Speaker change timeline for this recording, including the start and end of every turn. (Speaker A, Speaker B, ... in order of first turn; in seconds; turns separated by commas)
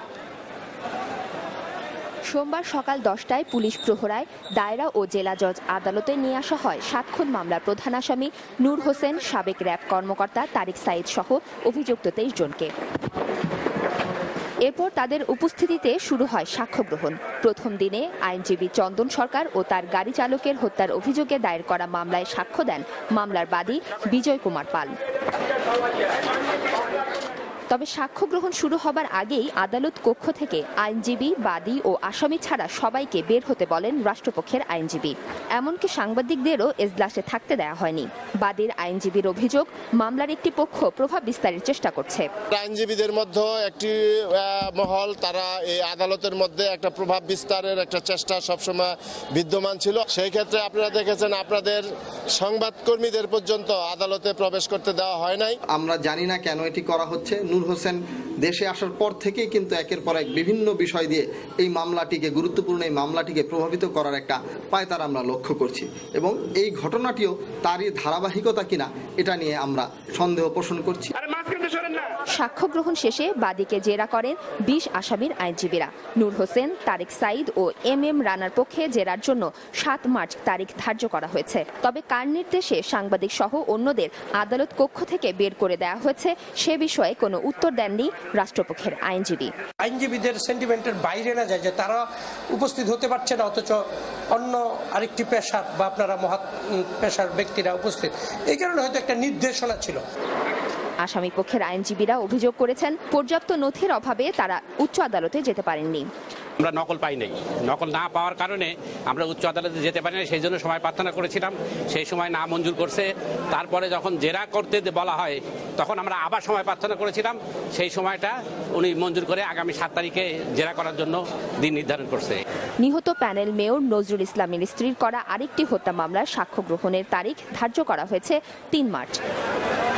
Speaker A: 2.3-12.7, Speaker A: 14.6-24.9, Speaker A: 27.7-42.3, Speaker B: 42.5-55.6, Speaker C: 55.7-71.1, Speaker A: 72.3-89.5, Speaker D: 89.8-100.0, Speaker A: 101.0-106.0, Speaker E: 106.6-122.4, Speaker A: 122.8-129.2